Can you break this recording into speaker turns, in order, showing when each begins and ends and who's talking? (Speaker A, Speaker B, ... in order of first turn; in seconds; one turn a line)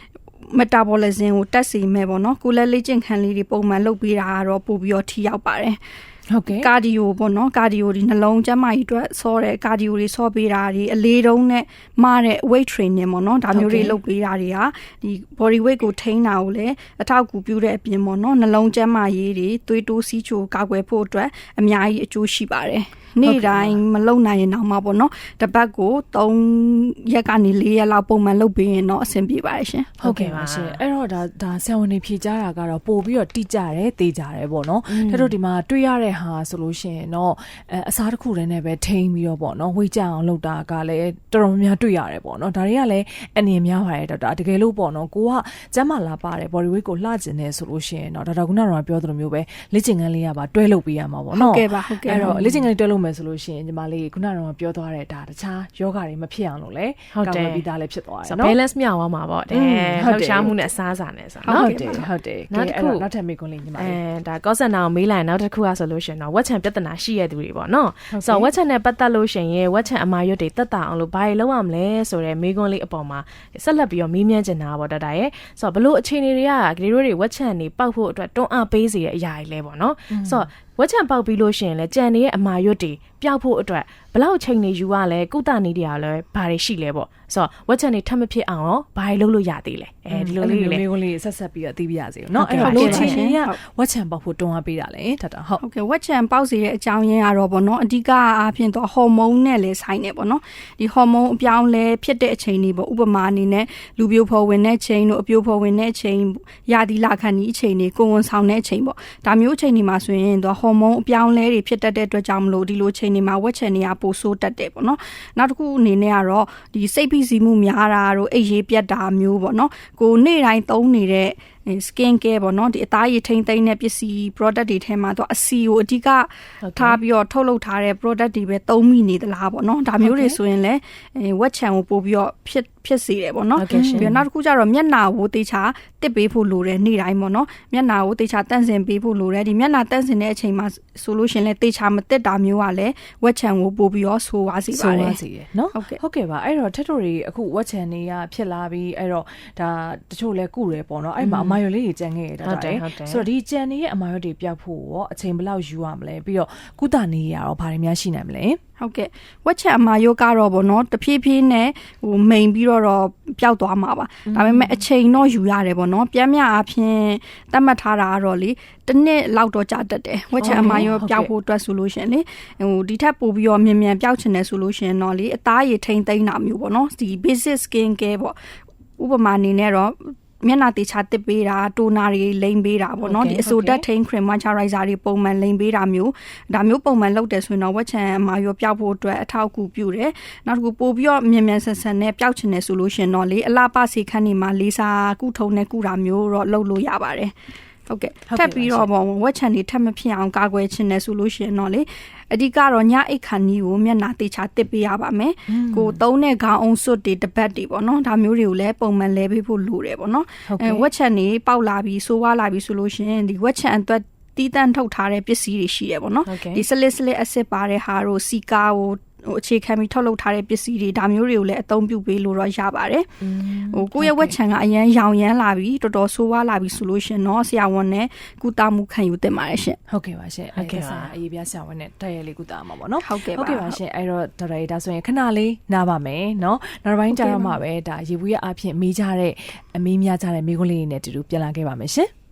Speaker A: 0.5-5.8
Speaker B: 6.3-6.7
Speaker A: 6.6-29.9
Speaker B: 13.5-14.0
Speaker B: 23.2-23.8
Speaker B: 30.0-58.6
Speaker C: 30.0-30.8
Speaker C: 34.9-35.3
Speaker A: 51.3-52.3
Speaker C: 52.1-52.6
Speaker C: 57.1-57.6
Speaker C: 58.2-61.7
Speaker B: 59.5-60.6
Speaker A: 61.4-62.1
Speaker B: 61.5-64.0
Speaker C: 62.5-63.0
Speaker C: 63.8-90.8
Speaker B: 68.1-68.5
Speaker B: 80.1-80.5
Speaker B: 90.1-95.6
Speaker C: 92.3-93.2
Speaker A: 92.6-93.6
Speaker A: 95.6-145.2
Speaker C: 126.6-127.0
Speaker B: 130.0-130.3
Speaker C: 133.6-134.1
Speaker B: 133.7-134.2
Speaker B: 144.7-158.6
Speaker A: 145.7-146.0
Speaker C: 151.2-151.6
Speaker C: 152.4-153.2
Speaker A: 158.8-178.4
Speaker B: 164.2-164.7
Speaker B: 170.4-171.3
Speaker C: 170.5-170.8
Speaker A: 179.0-197.3
Speaker C: 183.0-183.5
Speaker B: 183.4-183.8
Speaker A: 197.9-223.1
Speaker B: 198.3-198.9
Speaker B: 205.5-206.0
Speaker B: 210.5-210.8
Speaker C: 216.2-216.6
Speaker C: 223.2-224.1
Speaker A: 223.7-229.8
Speaker B: 224.0-224.3
Speaker B: 229.9-242.1
Speaker C: 230.6-231.1
Speaker A: 233.0-233.8
Speaker A: 237.1-237.6